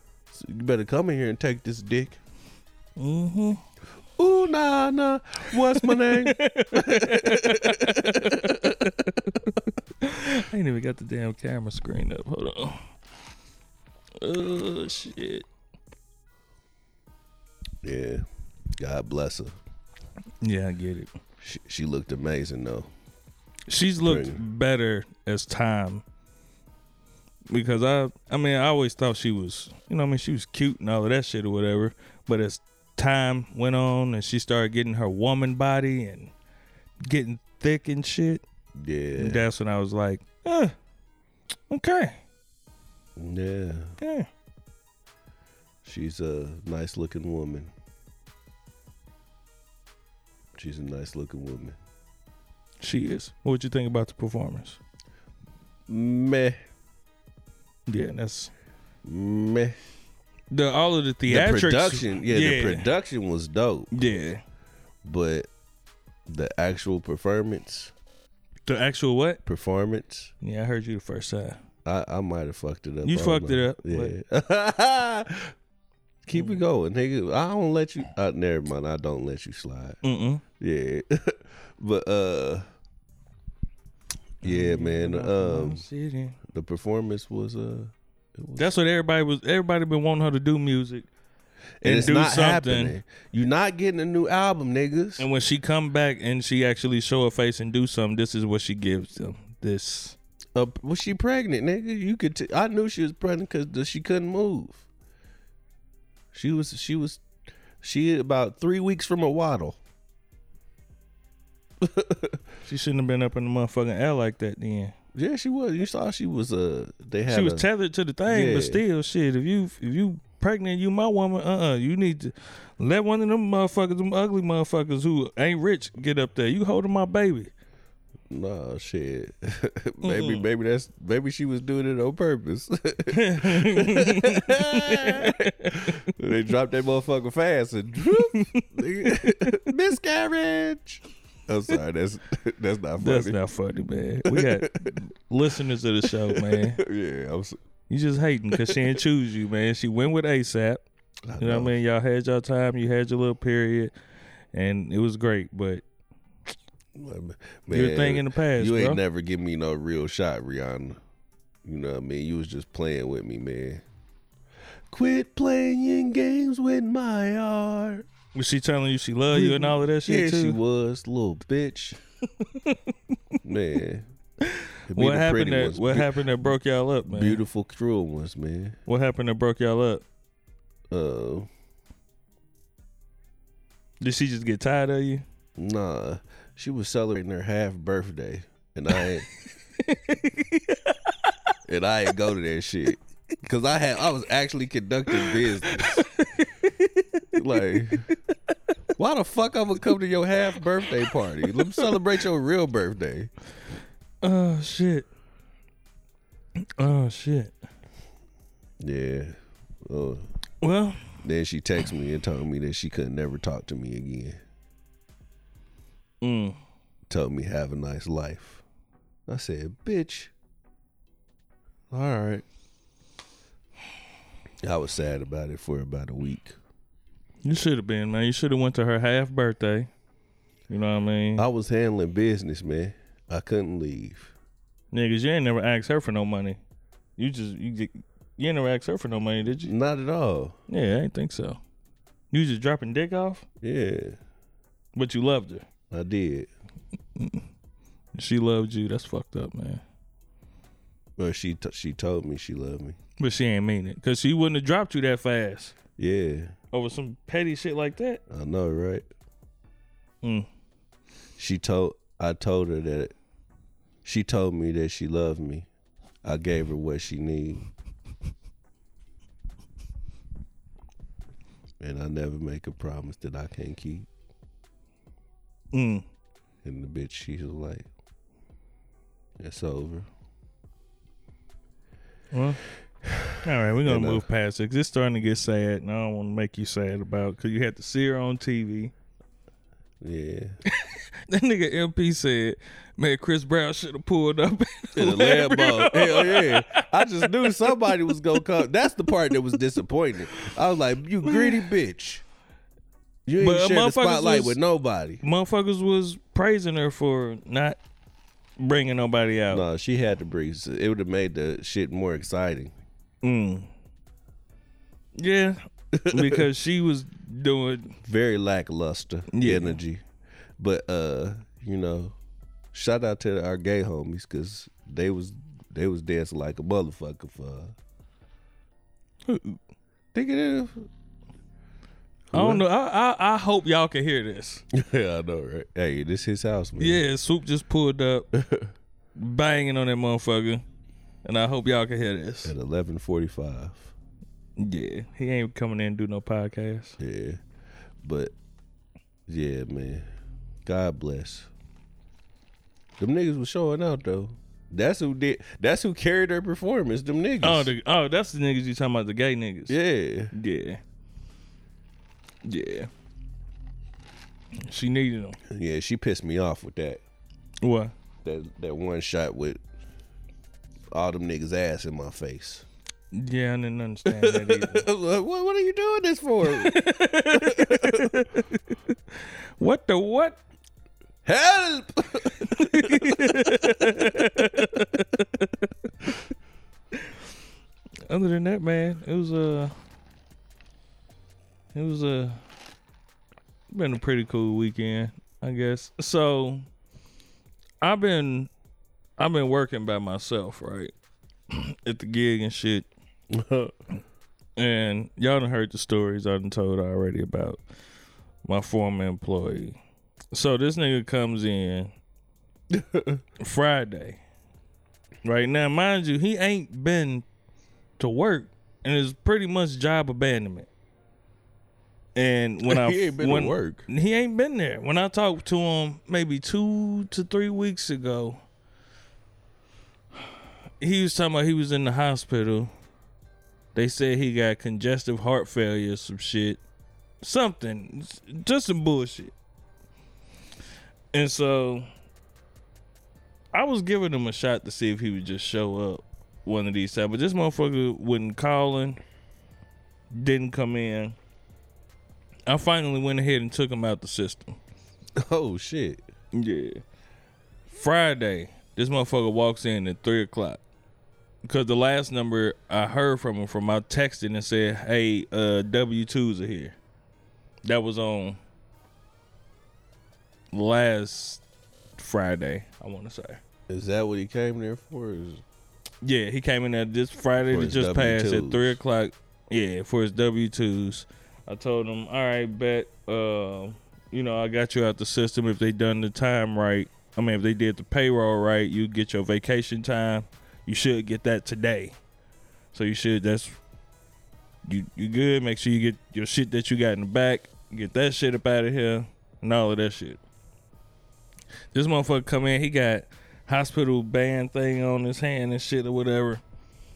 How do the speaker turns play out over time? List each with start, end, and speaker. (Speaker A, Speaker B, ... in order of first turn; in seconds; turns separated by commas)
Speaker A: 0.3-2.2, Speaker B: 3.0-3.6, Speaker A: 4.2-8.8, Speaker B: 5.7-12.9, Speaker B: 14.2-15.5, Speaker A: 17.8-18.2, Speaker A: 18.8-19.6, Speaker B: 20.4-21.1, Speaker A: 21.4-22.9, Speaker B: 23.7-26.0, Speaker A: 24.0-24.4, Speaker B: 27.5-36.3, Speaker B: 37.0-38.4, Speaker A: 38.8-39.5, Speaker B: 39.1-40.7, Speaker B: 41.7-42.2, Speaker A: 43.2-43.9, Speaker B: 44.0-44.3, Speaker A: 45.8-47.7, Speaker A: 50.6-51.8, Speaker B: 52.8-54.8, Speaker A: 55.9-56.6, Speaker B: 57.9-58.5, Speaker A: 59.0-59.8, Speaker B: 60.5-62.9, Speaker A: 61.3-63.9, Speaker B: 63.9-64.4, Speaker A: 65.0-65.5, Speaker A: 66.3-67.9, Speaker B: 68.7-69.4, Speaker A: 69.5-70.3, Speaker B: 70.4-71.6, Speaker A: 71.8-75.5, Speaker B: 73.0-74.1, Speaker A: 76.2-80.0, Speaker B: 76.3-76.6, Speaker B: 80.0-80.4, Speaker A: 80.6-82.7, Speaker A: 84.4-85.8, Speaker B: 84.4-86.4, Speaker A: 86.5-88.7, Speaker B: 88.6-91.1, Speaker A: 91.8-95.3, Speaker B: 91.8-93.0, Speaker B: 95.2-100.2, Speaker A: 100.5-104.8, Speaker A: 106.3-107.2, Speaker A: 107.8-109.8, Speaker A: 111.8-112.4, Speaker B: 112.7-114.9, Speaker A: 115.2-117.7, Speaker B: 117.3-127.5, Speaker A: 118.3-118.8, Speaker A: 128.3-143.4, Speaker B: 130.0-130.5, Speaker B: 133.1-136.0, Speaker B: 138.1-139.6, Speaker B: 143.0-146.8, Speaker A: 144.2-145.0, Speaker A: 146.1-147.6, Speaker B: 147.9-150.8, Speaker A: 148.5-148.9, Speaker A: 151.3-151.8, Speaker B: 151.4-153.9, Speaker B: 154.5-155.8, Speaker A: 156.9-161.0, Speaker B: 157.7-159.0, Speaker A: 161.6-163.8, Speaker A: 164.9-168.1, Speaker B: 168.3-170.6, Speaker A: 169.3-172.0, Speaker B: 172.4-173.4, Speaker A: 173.4-174.1, Speaker B: 174.4-177.4, Speaker A: 174.9-176.1, Speaker A: 177.1-178.8, Speaker B: 178.9-180.0, Speaker A: 180.9-181.5, Speaker B: 184.0-185.2, Speaker A: 185.6-189.3, Speaker B: 189.8-191.4, Speaker A: 191.7-196.0, Speaker B: 195.2-197.3, Speaker A: 197.3-198.1, Speaker A: 199.0-203.3, Speaker B: 204.2-205.1, Speaker B: 206.6-207.5, Speaker A: 208.8-210.3, Speaker B: 210.6-211.0, Speaker A: 211.2-214.4, Speaker B: 216.2-216.6, Speaker A: 217.1-218.6, Speaker A: 219.3-220.3, Speaker A: 221.9-222.4, Speaker A: 224.6-226.6, Speaker B: 227.4-229.9, Speaker B: 230.7-231.4, Speaker A: 231.4-234.3, Speaker B: 234.9-236.6, Speaker B: 237.2-239.7, Speaker A: 239.7-240.6, Speaker B: 240.7-241.6, Speaker B: 242.3-243.4, Speaker A: 243.6-244.2, Speaker B: 244.9-245.7, Speaker A: 245.9-246.5, Speaker B: 247.2-247.4, Speaker B: 248.1-249.8, Speaker A: 251.2-253.0, Speaker B: 253.2-255.8, Speaker A: 256.0-256.6, Speaker B: 256.7-258.2, Speaker A: 258.3-259.1, Speaker B: 260.2-260.5, Speaker A: 261.4-263.1, Speaker A: 264.0-265.7, Speaker A: 266.2-267.7, Speaker A: 271.8-274.1, Speaker B: 275.7-276.1, Speaker A: 276.6-277.9, Speaker A: 279.4-280.1, Speaker B: 282.3-282.6, Speaker A: 283.3-284.2, Speaker B: 283.4-288.9, Speaker A: 290.0-290.6, Speaker B: 290.7-298.4, Speaker A: 295.0-302.2, Speaker B: 301.3-301.7, Speaker A: 303.3-305.2, Speaker B: 303.4-304.6, Speaker B: 305.2-307.8, Speaker B: 308.6-309.7, Speaker A: 309.5-312.7, Speaker B: 313.2-313.7, Speaker B: 315.2-315.6, Speaker A: 315.9-316.4, Speaker B: 316.1-318.0, Speaker A: 318.0-320.0, Speaker B: 319.3-319.8, Speaker A: 320.6-322.1, Speaker A: 322.7-327.8, Speaker B: 329.2-329.6, Speaker A: 330.1-330.9, Speaker A: 332.3-332.6, Speaker B: 332.3-334.6, Speaker A: 334.7-337.0, Speaker B: 336.8-338.3, Speaker A: 338.3-338.7, Speaker B: 339.2-340.6, Speaker B: 341.2-342.5, Speaker A: 342.4-343.9, Speaker B: 344.6-347.0, Speaker A: 347.0-347.4, Speaker A: 348.0-348.3, Speaker A: 349.3-350.1, Speaker A: 350.7-351.5, Speaker A: 353.0-357.7, Speaker B: 357.4-359.8, Speaker A: 359.7-360.3, Speaker B: 360.3-360.8, Speaker B: 362.4-362.9, Speaker B: 364.6-365.4, Speaker A: 365.5-367.0, Speaker B: 367.6-367.9, Speaker A: 368.2-369.6, Speaker A: 370.9-372.7, Speaker B: 373.1-374.9, Speaker A: 374.1-378.2, Speaker B: 376.4-378.6, Speaker B: 379.2-380.4, Speaker A: 381.2-384.8, Speaker B: 382.5-385.7, Speaker B: 388.1-389.7, Speaker B: 391.7-392.4, Speaker B: 393.7-396.7, Speaker B: 397.8-398.5, Speaker B: 399.2-400.9, Speaker B: 401.5-402.9, Speaker A: 403.3-403.7, Speaker B: 404.6-407.6, Speaker B: 408.4-409.8, Speaker B: 410.3-411.9, Speaker A: 412.7-413.2, Speaker B: 413.4-414.2, Speaker B: 415.2-417.2, Speaker B: 418.0-420.7, Speaker B: 422.1-428.4, Speaker A: 422.6-423.9, Speaker B: 430.8-432.7, Speaker B: 433.8-436.6, Speaker B: 437.2-439.3, Speaker B: 441.1-441.9, Speaker B: 443.5-449.0, Speaker B: 450.1-451.2, Speaker B: 452.5-454.6, Speaker A: 455.2-456.0, Speaker B: 456.3-456.8, Speaker B: 457.7-460.6, Speaker B: 461.4-466.8, Speaker B: 467.6-468.4, Speaker B: 470.5-471.4, Speaker B: 472.0-473.4, Speaker A: 473.7-475.4, Speaker B: 476.0-492.0, Speaker A: 477.5-478.8, Speaker B: 492.7-493.6, Speaker B: 494.7-500.2, Speaker B: 501.7-506.4